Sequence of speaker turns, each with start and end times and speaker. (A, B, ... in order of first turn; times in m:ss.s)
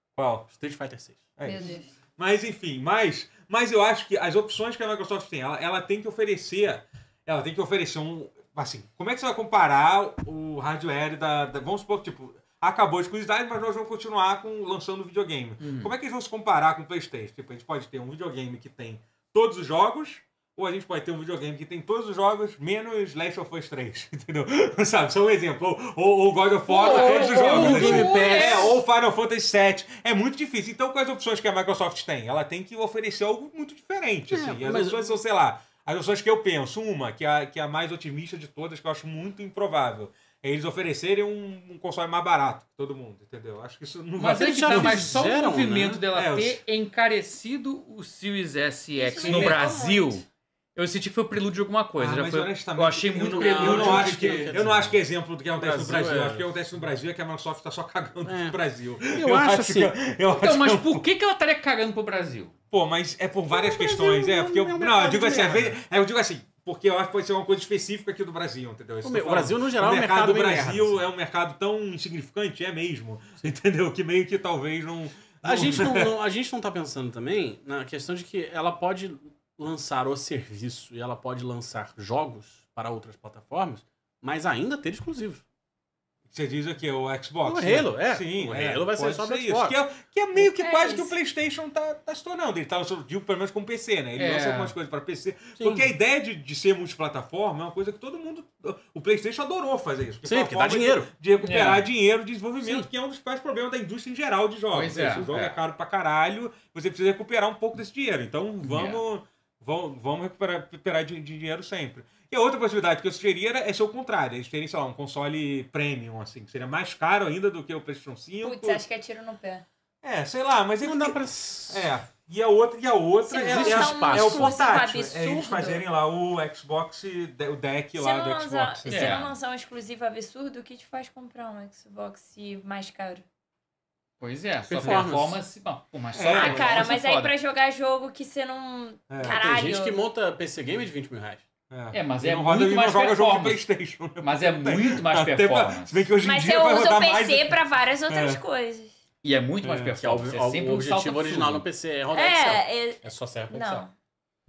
0:00.1-0:00.5 A
0:00.5-0:01.3 B
0:01.4-0:45.1 A
0:01.4-0:01.8 C
0:15.6-0:15.9 D
0:26.7-0:28.8 D
0:26.7-0:28.8 B
0:34.3-0:35.2 B
0:44.2-0:54.6 D
0:44.2-0:46.0 B
0:46.1-0:46.6 A
0:49.0-0:50.2 C
0:49.3-0:49.6 A
0:52.0-1:01.0 A
0:53.2-0:55.0 B
0:55.6-0:56.5 B
0:58.2-0:59.9 B
1:00.3-1:02.5 D
1:02.7-1:16.1 A
1:03.5-1:05.8 B
1:09.0-1:11.0 B
1:15.4-1:25.4 B
1:26.3-1:58.8 A
1:27.4-1:29.8 B
1:30.3-1:31.1 C
1:34.2-1:34.7 D
1:35.6-1:35.9 B
1:40.2-1:41.1 B
1:41.4-1:41.9 D
1:42.6-1:42.9 B
1:44.7-1:45.6 D
1:48.6-1:49.0 D
1:58.4-1:59.6 C
2:00.0-2:09.2 A
2:00.8-2:01.9 B
2:03.2-2:05.8 C
2:03.4-2:04.6 B
2:08.0-2:13.2 C
2:08.9-2:09.3 D
2:14.2-2:17.3 D
2:14.7-2:15.4 B
2:16.1-2:16.9 A
2:16.3-2:20.0 C
2:19.1-2:19.4 A
2:19.2-2:21.4 B
2:21.7-2:27.6 A
2:21.9-2:23.6 D
2:24.2-2:26.0 D
2:26.2-2:28.9 C
2:28.1-2:28.4 A
2:29.2-2:31.6 D
2:29.6-2:29.9 A
2:29.8-2:33.8 B
2:32.1-2:33.9 C